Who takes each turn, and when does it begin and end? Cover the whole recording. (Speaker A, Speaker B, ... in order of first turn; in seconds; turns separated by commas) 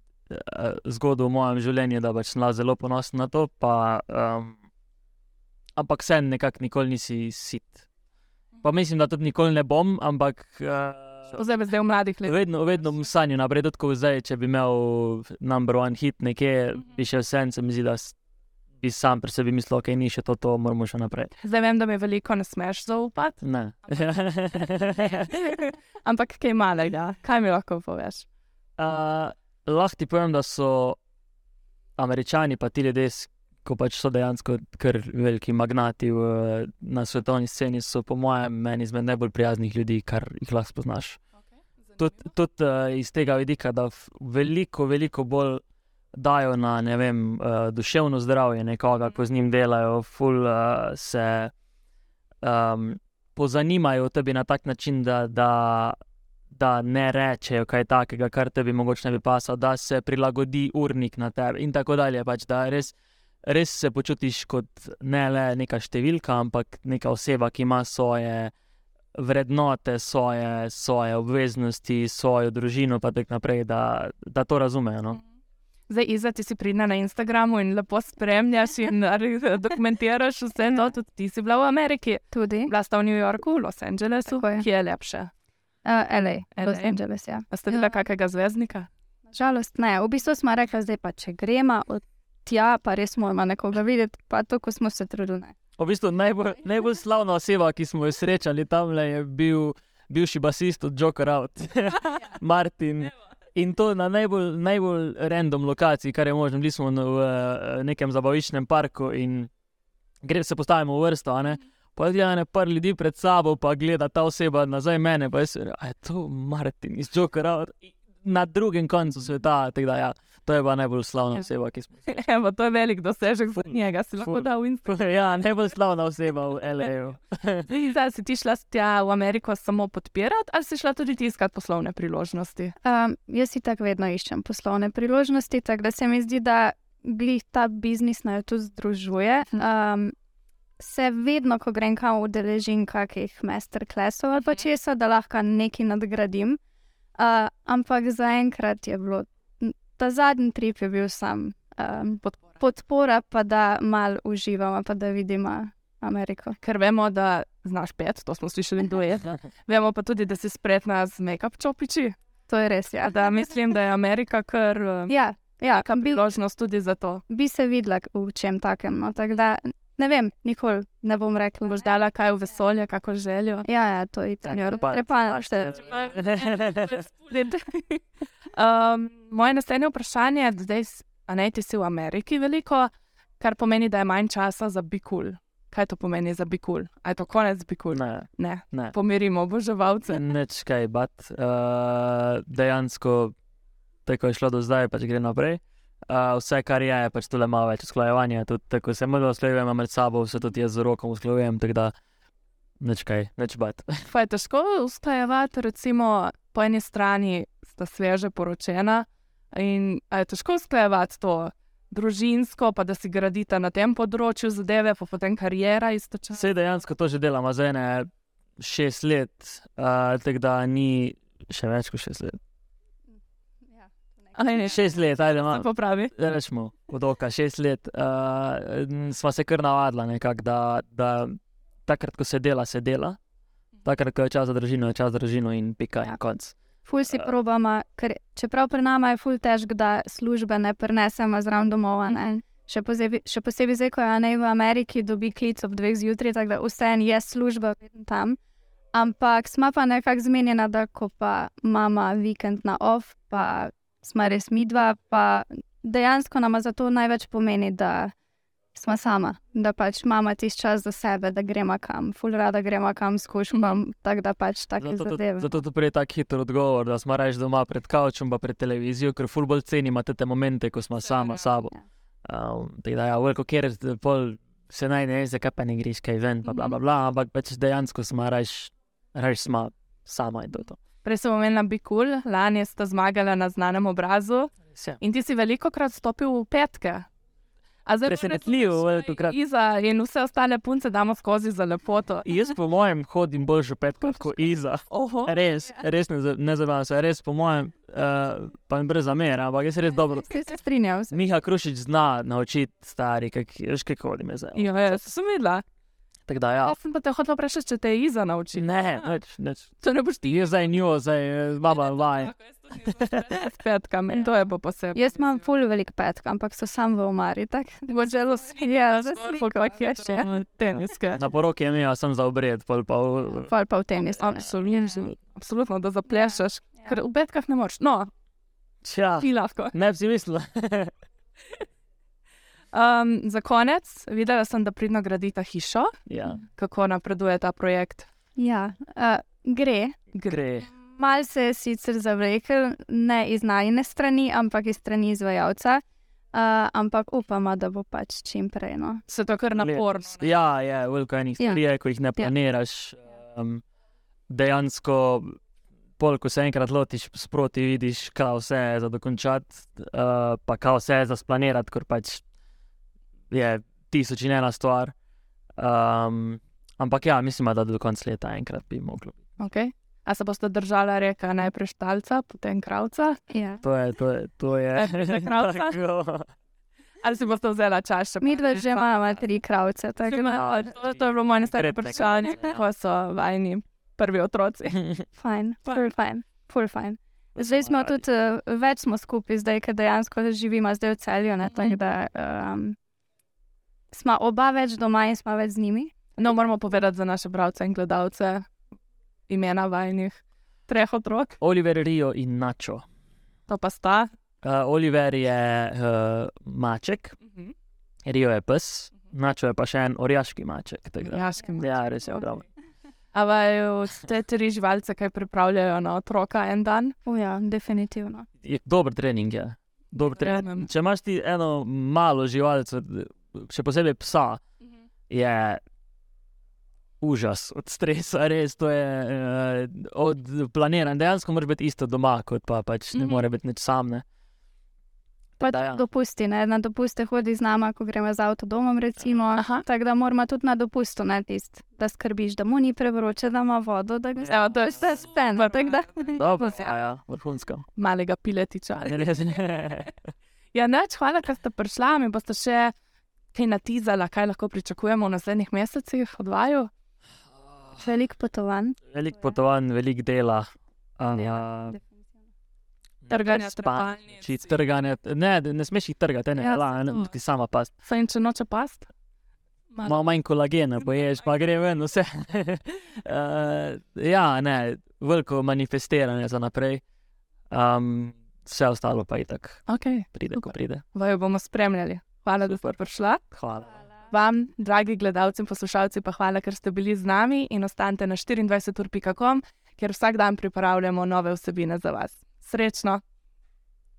Speaker A: 0.3-4.6, Speaker A: 5.8-7.8, Speaker A: 8.6-11.4, Speaker B: 11.3-12.4, Speaker A: 12.2-18.1, Speaker A: 18.8-21.3, Speaker B: 21.4-23.4, Speaker A: 23.4-25.5, Speaker B: 25.3-28.2, Speaker A: 28.8-31.0, Speaker A: 32.0-41.2, Speaker B: 41.9-42.2, Speaker A: 42.0-45.6, Speaker A: 46.1-51.5, Speaker A: 52.4-56.0, Speaker A: 56.5-68.5, Speaker A: 69.1-75.2, Speaker B: 75.9-85.3, Speaker C: 82.3-82.7, Speaker C: 84.3-84.7, Speaker C: 85.8-87.9, Speaker B: 86.5-86.9, Speaker B: 87.5-88.9, Speaker C: 89.3-95.5, Speaker A: 95.8-109.5, Speaker A: 110.2-122.2, Speaker B: 122.1-124.9, Speaker A: 124.2-127.7, Speaker B: 127.7-132.7, Speaker C: 132.8-140.1, Speaker C: 140.8-146.6, Speaker C: 147.2-156.6, Speaker B: 156.6-162.2, Speaker C: 162.5-163.2, Speaker B: 163.0-165.2, Speaker C: 165.1-166.2, Speaker B: 165.7-167.2, Speaker C: 167.3-171.8, Speaker B: 171.7-173.7, Speaker C: 173.6-175.8, Speaker A: 174.4-177.0, Speaker B: 175.8-178.0, Speaker B: 178.5-190.2, Speaker A: 187.9-188.9, Speaker A: 190.1-193.3, Speaker A: 194.1-201.9, Speaker A: 202.8-203.9, Speaker B: 204.1-216.4, Speaker A: 216.3-218.1, Speaker A: 218.6-222.4, Speaker C: 223.7-224.7, Speaker B: 224.3-224.8, Speaker A: 224.7-233.2, Speaker B: 225.4-226.1, Speaker A: 233.8-236.6, Speaker C: 236.8-248.4, Speaker C: 248.9-258.1, Speaker C: 258.7-265.5, Speaker A: 264.8-271.7, Speaker A: 272.2-280.8, Speaker B: 281.0-287.1, Speaker A: 284.7-285.0, Speaker B: 287.9-292.2, Speaker A: 288.0-289.4, Speaker A: 292.2-300.3, Speaker B: 294.9-295.3, Speaker C: 300.2-301.2, Speaker A: 301.1-305.1, Speaker B: 304.6-305.6, Speaker A: 306.3-306.8, Speaker B: 306.6-309.1, Speaker A: 308.6-309.7, Speaker B: 309.8-310.8, Speaker A: 310.2-313.2, Speaker B: 312.4-315.3, Speaker C: 314.9-320.3, Speaker B: 317.9-321.2, Speaker A: 321.1-323.5, Speaker C: 323.4-325.1, Speaker B: 324.2-328.1, Speaker A: 328.8-330.9, Speaker B: 329.2-329.7, Speaker B: 332.7-335.9, Speaker A: 336.1-336.4, Speaker B: 336.4-338.1, Speaker C: 338.4-339.9, Speaker A: 340.3-340.7, Speaker C: 340.7-345.8, Speaker C: 346.3-349.0, Speaker B: 349.1-350.3, Speaker A: 349.6-353.6, Speaker A: 354.3-355.4, Speaker A: 356.0-362.2, Speaker A: 363.3-364.9, Speaker A: 365.6-369.2, Speaker B: 369.4-373.2, Speaker C: 373.3-373.6, Speaker A: 373.6-376.3, Speaker B: 374.7-375.8, Speaker B: 377.0-378.9, Speaker C: 378.2-380.5, Speaker B: 380.0-384.8, Speaker A: 380.3-382.6, Speaker C: 385.1-392.8, Speaker A: 387.4-388.0, Speaker C: 393.9-395.9, Speaker B: 396.2-398.5, Speaker B: 399.3-401.4, Speaker A: 401.4-402.8, Speaker B: 403.5-404.1, Speaker A: 404.4-407.1, Speaker B: 407.3-407.5, Speaker A: 408.0-412.4, Speaker B: 411.0-411.8, Speaker B: 413.1-416.9, Speaker C: 417.0-418.2, Speaker A: 418.4-424.4, Speaker B: 420.2-420.7, Speaker A: 425.1-425.6, Speaker A: 427.0-434.0, Speaker B: 432.9-433.2, Speaker A: 435.4-435.8, Speaker C: 435.4-446.5, Speaker B: 439.3-439.6, Speaker B: 444.3-446.1, Speaker A: 446.1-447.6, Speaker B: 447.8-449.3, Speaker A: 448.8-450.0, Speaker B: 450.5-452.7, Speaker B: 453.3-456.7, Speaker A: 457.4-457.8, Speaker C: 457.8-458.8, Speaker A: 458.9-460.4, Speaker A: 461.0-461.8, Speaker C: 461.1-462.2, Speaker A: 463.0-467.7, Speaker B: 463.1-464.4, Speaker B: 466.4-467.1, Speaker B: 467.8-468.9, Speaker A: 469.8-476.8, Speaker A: 477.5-480.8, Speaker B: 479.7-483.2, Speaker A: 482.4-482.8, Speaker A: 483.3-483.8, Speaker B: 484.1-493.0